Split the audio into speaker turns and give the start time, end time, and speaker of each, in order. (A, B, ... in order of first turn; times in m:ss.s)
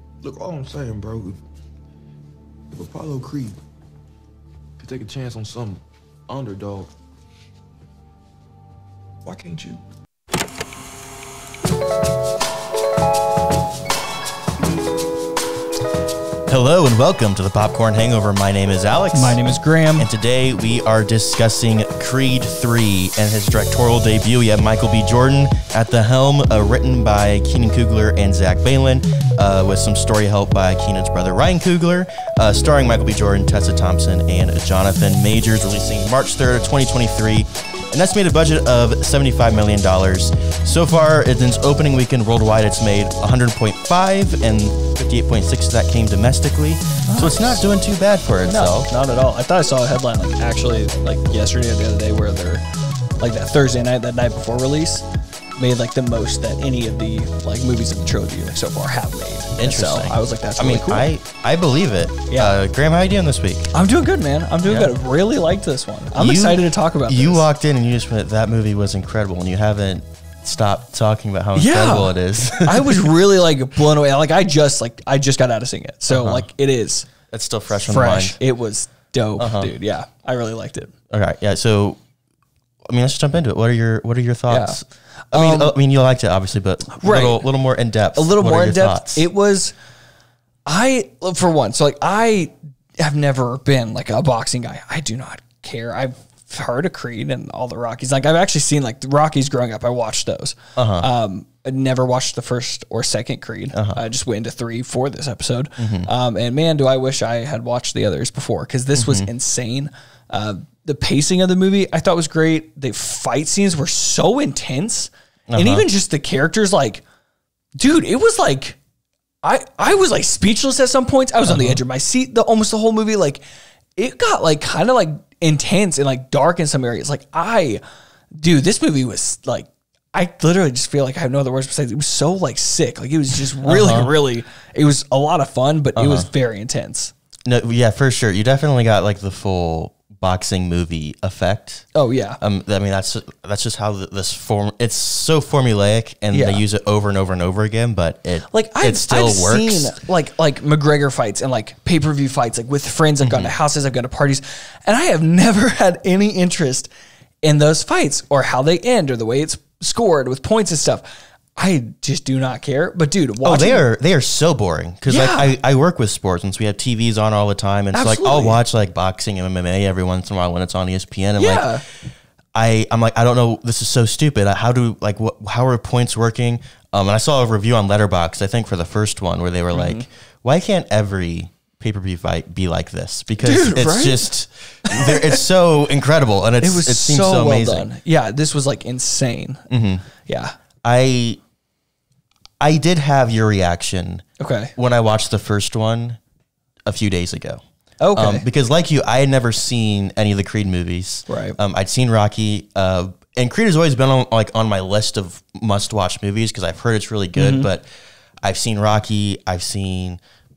0:00.2-0:01.4 A
0:02.7-0:03.6 A
0:04.8-0:06.9 A
0:09.2-0:09.8 A
0:16.5-0:19.4 B
0:19.1-0:20.1 C
0:20.0-0:48.9 B
0:47.0-0:47.6 C
0:48.4-0:52.6 C
0:53.2-0:55.0 C
0:55.6-1:01.1 C
0:59.6-1:03.7 B
1:02.3-1:02.6 C
1:03.7-1:07.4 C
1:04.6-1:04.9 B
1:06.2-1:13.1 B
1:11.5-1:17.1 C
1:16.1-1:16.4 B
1:17.3-1:18.4 B
1:17.8-1:20.9 C
1:19.4-1:19.7 B
1:21.1-1:22.0 B
1:22.9-1:29.2 B
1:24.5-1:24.8 C
1:25.3-1:25.7 C
1:27.0-1:27.4 C
1:28.1-1:29.7 C
1:30.6-1:57.0 C
1:40.8-1:41.1 B
1:43.7-1:44.0 B
1:45.8-1:46.1 B
1:48.9-1:49.3 B
1:55.5-1:55.8 B
1:57.8-1:58.8 C
1:59.4-2:03.4 C
2:01.5-2:01.8 B
2:04.0-2:07.8 C
2:08.4-2:17.1 C
2:13.6-2:14.1 B
2:16.0-2:16.3 B
2:17.4-2:21.9 B
2:21.9-2:22.4 C
2:22.4-2:29.9 B
2:26.3-2:26.6 C
2:28.5-2:36.9 C
2:33.2-2:33.5 B
2:37.4-2:41.0 C
2:41.6-2:43.8 C
2:43.4-2:51.7 B
2:45.1-2:45.5 C
2:47.9-2:48.6 C
2:51.4-2:51.8 C
2:52.5-3:07.9 B
2:59.7-3:00.0 C
3:03.4-3:04.3 C
3:04.8-3:05.4 C
3:06.6-3:09.6 C
3:09.7-3:10.0 B
3:10.2-3:10.6 C
3:10.8-3:11.4 B
3:12.6-3:14.2 B
3:14.4-3:14.7 C
3:14.8-3:16.2 B
3:16.8-3:17.6 B
3:18.0-3:18.4 C
3:18.1-3:27.9 B
3:21.3-3:21.6 C
3:27.4-3:27.7 C
3:28.4-3:30.2 B